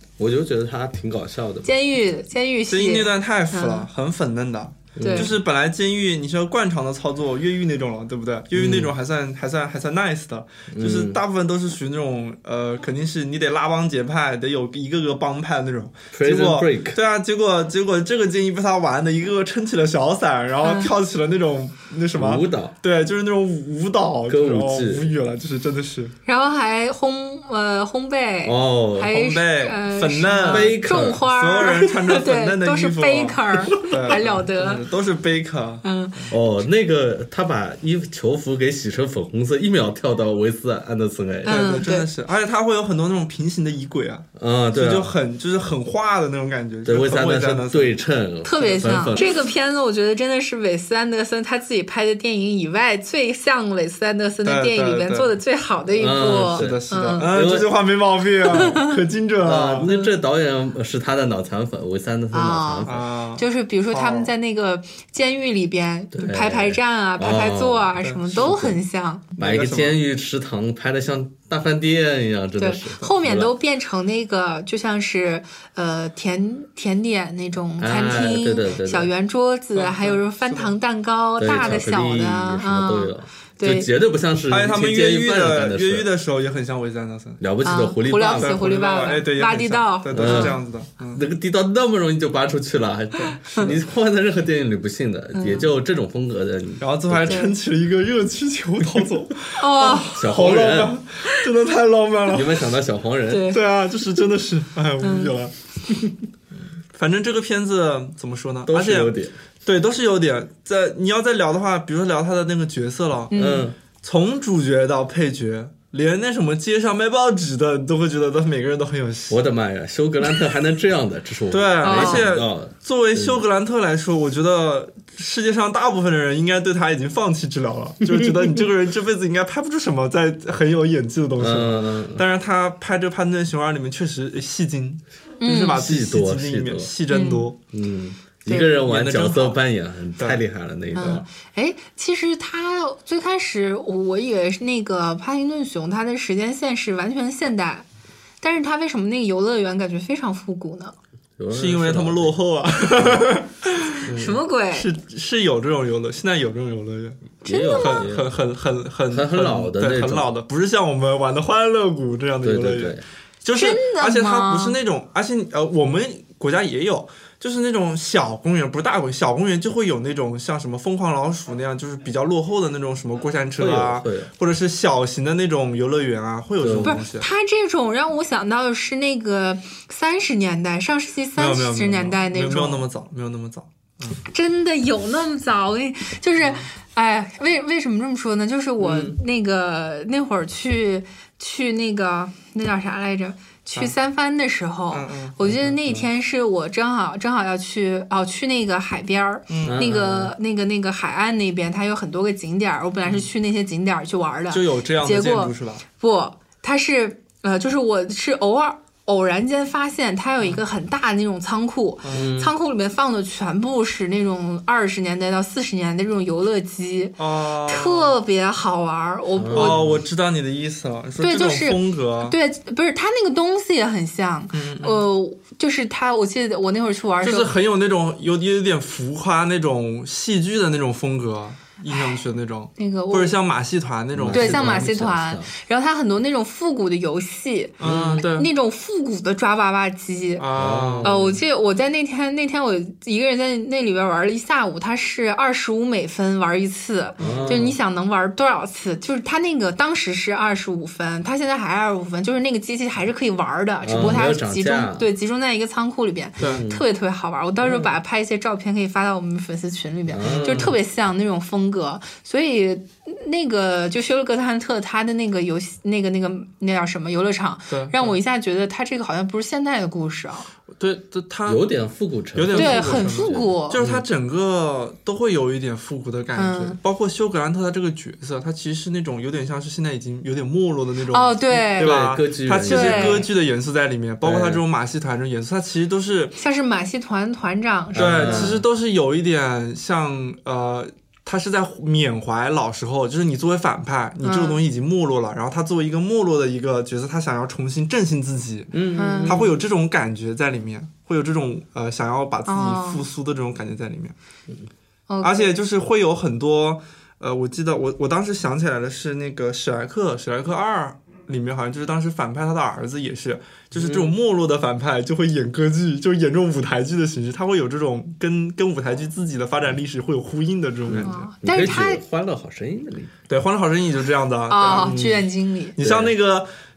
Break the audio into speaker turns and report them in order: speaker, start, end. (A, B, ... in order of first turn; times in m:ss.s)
0:00.2-0:01.7 A
0:01.6-0:03.9 B
0:02.7-0:26.1 C
0:05.0-0:05.4 A
0:05.0-0:05.3 B
0:08.5-0:08.9 A
0:10.7-0:11.2 A
0:16.1-0:17.0 A
0:20.6-0:20.9 B
0:22.1-0:22.7 A
0:24.3-0:25.1 A
0:26.2-0:34.8 B
0:28.4-0:29.2 A
0:29.1-0:36.3 C
0:30.4-0:31.2 A
0:35.8-0:36.4 B
0:36.3-0:41.7 A
0:41.4-0:42.0 B
0:41.4-0:48.0 C
0:44.4-0:45.1 A
0:46.8-0:49.3 A
0:48.4-0:57.3 B
0:54.4-0:55.3 C
0:56.0-0:57.7 A
0:56.5-0:59.9 C
0:58.5-0:58.9 B
0:59.4-1:03.0 A
0:59.8-1:00.1 B
1:02.3-1:09.3 B
1:02.8-1:04.3 C
1:06.1-1:08.8 A
1:08.0-1:08.5 C
1:09.4-1:13.5 A
1:09.4-1:10.0 C
1:12.6-1:23.9 B
1:17.8-1:19.1 A
1:19.7-1:20.7 C
1:21.4-1:26.0 A
1:24.5-1:27.4 C
1:27.4-1:28.6 A
1:27.6-1:30.6 B
1:28.3-1:31.2 C
1:30.1-1:37.4 A
1:33.3-1:33.7 B
1:33.5-1:33.8 C
1:35.3-1:35.7 B
1:36.8-1:42.7 C
1:37.2-1:37.5 B
1:39.6-1:40.2 B
1:40.1-1:41.0 A
1:42.3-1:43.5 A
1:43.3-1:43.6 B
1:43.5-1:45.5 C
1:45.0-1:45.3 B
1:46.9-1:53.4 C
1:48.7-1:49.3 A
1:53.3-1:53.7 B
1:53.3-1:53.7 A
1:54.0-1:59.4 C
1:59.3-2:03.4 A
2:01.5-2:17.6 C
2:01.8-2:02.3 B
2:11.4-2:12.2 A
2:15.4-2:15.8 B
2:15.7-2:16.9 A
2:17.1-2:17.5 B
2:17.7-2:21.2 A
2:18.5-2:19.6 C
2:20.2-2:20.4 C
2:20.9-2:27.8 B
2:28.4-2:30.9 B
2:31.4-2:32.3 A
2:31.5-2:34.0 C
2:33.0-2:33.2 A
2:34.0-2:34.4 A
2:34.0-2:34.9 B
2:34.7-2:57.3 C
2:37.4-2:38.3 A
2:37.4-2:38.0 B
2:39.1-2:40.3 A
2:42.4-2:43.0 A
2:43.5-2:44.8 B
2:53.6-2:54.3 A
2:56.6-2:57.0 A
2:56.8-3:02.8 B
3:01.4-3:04.2 C
3:04.2-3:39.8 B
3:06.4-3:06.7 C
3:08.8-3:09.1 A
3:14.9-3:15.4 C
3:15.4-3:16.0 A
3:19.5-3:19.8 C
3:19.6-3:20.3 A
3:24.5-3:25.8 C
3:32.0-3:32.4 C
3:32.1-3:32.5 A
3:37.2-3:38.2 C
3:39.4-3:40.0 A
3:39.5-3:42.4 C
3:41.2-3:47.5 B
3:44.5-3:45.0 C
3:47.2-3:54.9 C
3:52.8-3:53.3 B
3:54.1-3:55.5 A
3:54.3-4:00.5 B
3:57.8-3:58.5 C
3:57.8-3:58.2 A
4:00.4-4:01.2 C
4:00.5-4:01.4 A
4:01.0-4:30.5 B
4:07.2-4:07.7 C
4:07.2-4:07.7 A
4:13.8-4:15.1 A
4:16.4-4:16.6 C
4:16.4-4:16.8 A
4:20.1-4:20.7 A
4:20.2-4:20.8 C
4:27.7-4:28.2 C
4:30.8-4:31.6 C
4:31.4-4:34.0 A
4:32.3-4:46.4 C
4:32.5-4:33.8 B
4:36.4-4:36.8 B
4:41.1-4:42.0 B
4:41.8-4:43.3 A
4:42.6-4:43.3 B
4:44.2-4:44.6 A
4:46.4-4:48.5 B
4:47.9-4:48.6 A
4:47.9-5:04.1 C
4:54.2-4:54.6 B
4:58.7-4:59.5 A
4:59.0-4:59.4 B
5:02.5-5:03.0 B
5:05.1-5:05.5 B
5:05.2-5:21.3 C
5:13.7-5:14.1 A
5:20.9-5:23.1 A
5:21.0-5:22.0 B
5:23.3-5:25.0 C
5:24.5-5:25.8 B
5:24.8-5:25.3 A
5:25.8-5:26.5 C
5:25.8-5:26.1 A